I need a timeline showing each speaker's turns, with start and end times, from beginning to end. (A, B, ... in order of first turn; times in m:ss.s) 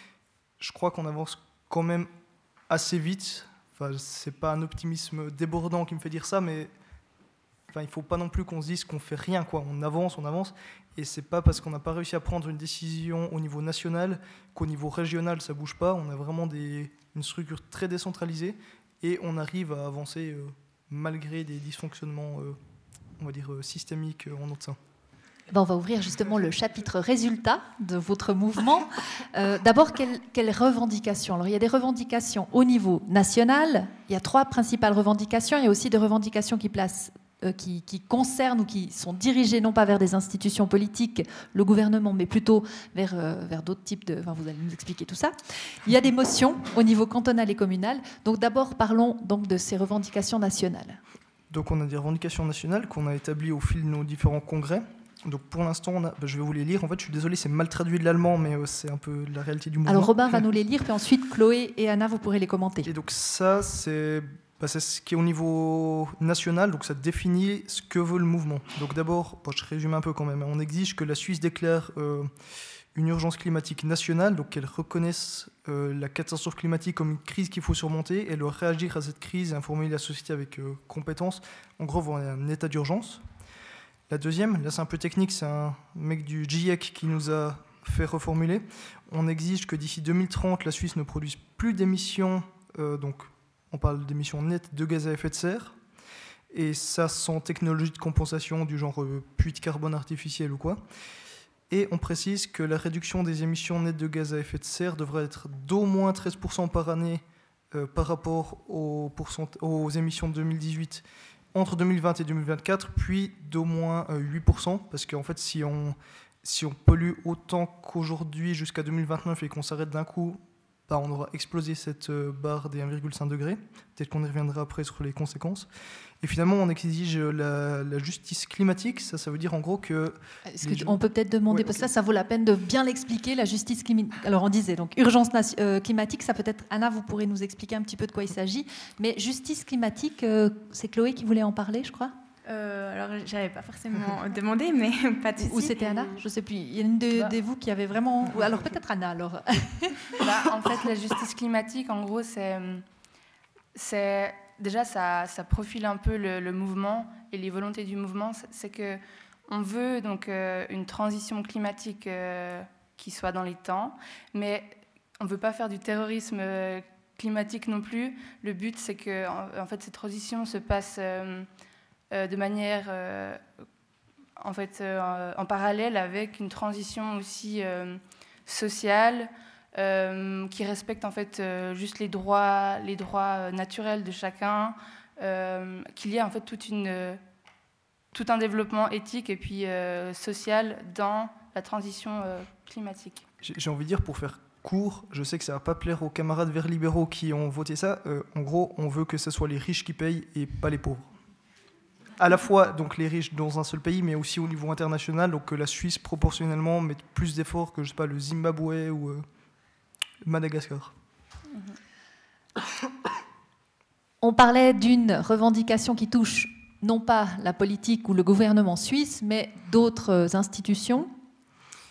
0:00.6-0:02.1 A
0:02.7-0:06.7 A
0:07.7-0:22.6 A
0:23.2-0:24.8 A
0:25.5-0:51.0 B
0:51.5-1:00.4 A
0:59.9-1:02.9 B
1:02.8-1:12.3 A
1:13.0-1:23.2 A
1:24.1-1:35.8 A
1:36.5-1:40.8 A
1:41.7-2:05.7 A
2:06.2-2:11.0 A
2:10.5-2:22.1 B
2:11.5-2:11.9 A
2:22.5-2:26.2 C
2:25.4-2:30.2 B
2:30.2-2:32.8 D
2:33.8-2:51.5 D
2:52.1-2:53.4 D
2:54.4-3:07.2 D
3:08.1-3:13.2 D
3:13.4-3:21.1 A
3:22.2-3:29.2 A
3:30.2-3:30.9 A
3:34.2-3:41.1 B